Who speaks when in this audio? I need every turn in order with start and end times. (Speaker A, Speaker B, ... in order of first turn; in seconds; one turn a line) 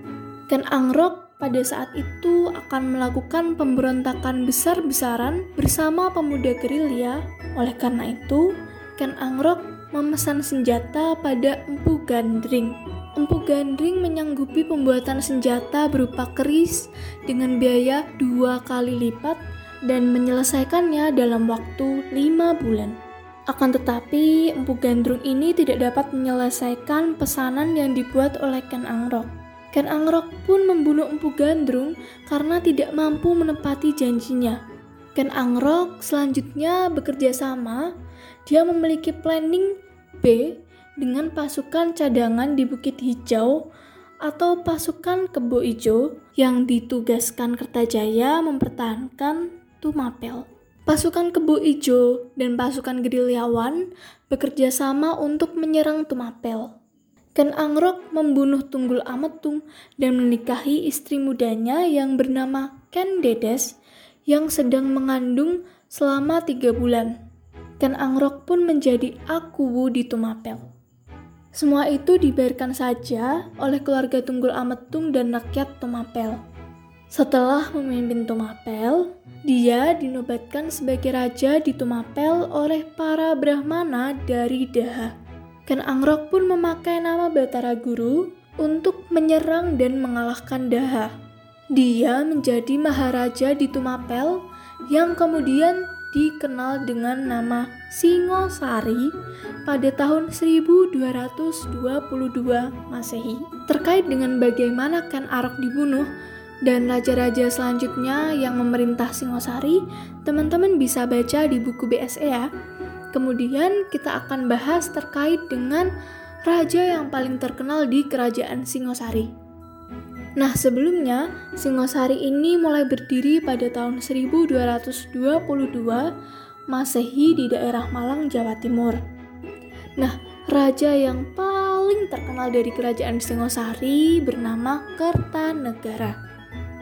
Speaker A: 0.5-23.0
Speaker A: 23.5-34.6
Speaker A: 35.1-37.9
Speaker A: 38.5-43.6
Speaker A: 44.2-56.7
Speaker A: 57.4-63.8
Speaker A: 64.3-67.1
Speaker A: 67.8-70.6
Speaker A: 71.5-76.4
Speaker A: 77.1-85.1
Speaker A: 85.7-91.1
Speaker A: 91.7-99.1
Speaker A: 99.7-106.1
Speaker A: 106.6-112.5
Speaker A: 113.1-115.9
Speaker A: 116.4-119.3
Speaker A: 120.4-126.1
Speaker A: 126.7-129.0
Speaker A: 130.0-136.1